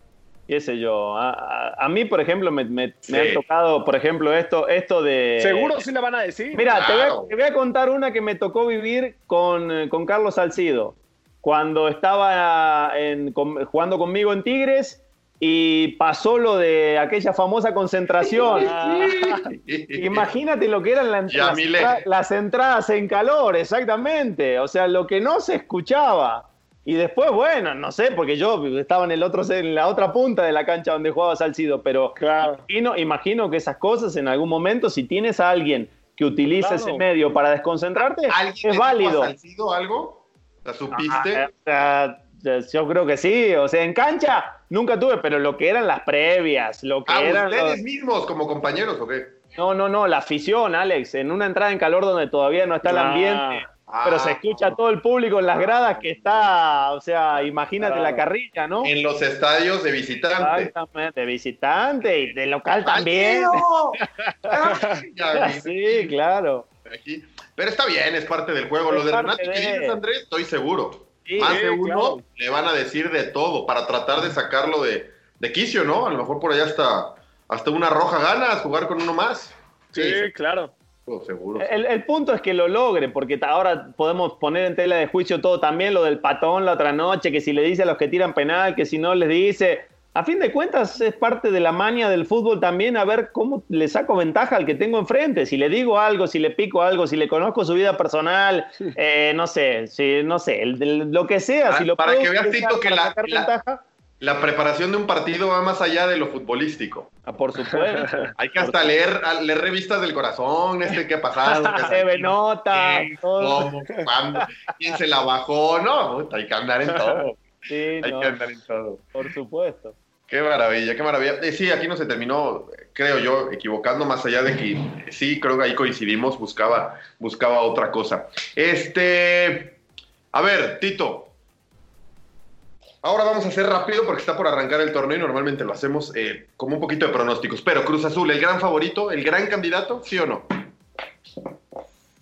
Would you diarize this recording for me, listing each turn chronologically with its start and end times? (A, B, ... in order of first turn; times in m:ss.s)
0:00.5-0:05.8 A
0:03.1-0:03.4 B
0:05.4-0:06.7 C
0:06.6-0:19.2 A
0:06.6-0:07.3 B
0:18.4-0:20.3 B
0:18.5-0:19.0 C
0:19.9-0:39.3 A
0:21.3-0:22.0 B
0:32.2-0:32.6 C
0:36.6-0:37.0 C
0:38.3-0:41.5 B
0:40.9-0:47.8 A
0:47.1-0:49.4 B
0:49.6-0:58.9 A
0:52.8-0:53.6 C
0:53.8-0:54.8 B
0:55.5-0:56.5 B
0:57.8-0:58.2 C
0:58.8-1:00.7 B
1:00.4-1:04.5 A
1:02.8-1:06.1 B
1:05.3-1:06.7 A
1:06.9-1:20.2 B
1:08.9-1:10.0 A
1:11.2-1:11.6 A
1:11.4-1:12.2 C
1:19.9-1:20.7 C
1:21.1-1:21.8 B
1:21.6-1:43.8 A
1:41.7-1:43.5 B
1:44.2-1:47.1 B
1:47.2-1:48.9 A
1:47.7-1:48.3 C
1:48.4-1:57.4 B
1:51.7-1:51.9 C
1:51.7-1:53.6 A
1:56.9-1:57.2 C
1:57.7-1:58.3 A
1:58.0-1:59.0 B
1:59.1-1:59.9 A
2:00.3-2:09.8 B
2:10.3-2:11.3 B
2:13.0-2:20.5 B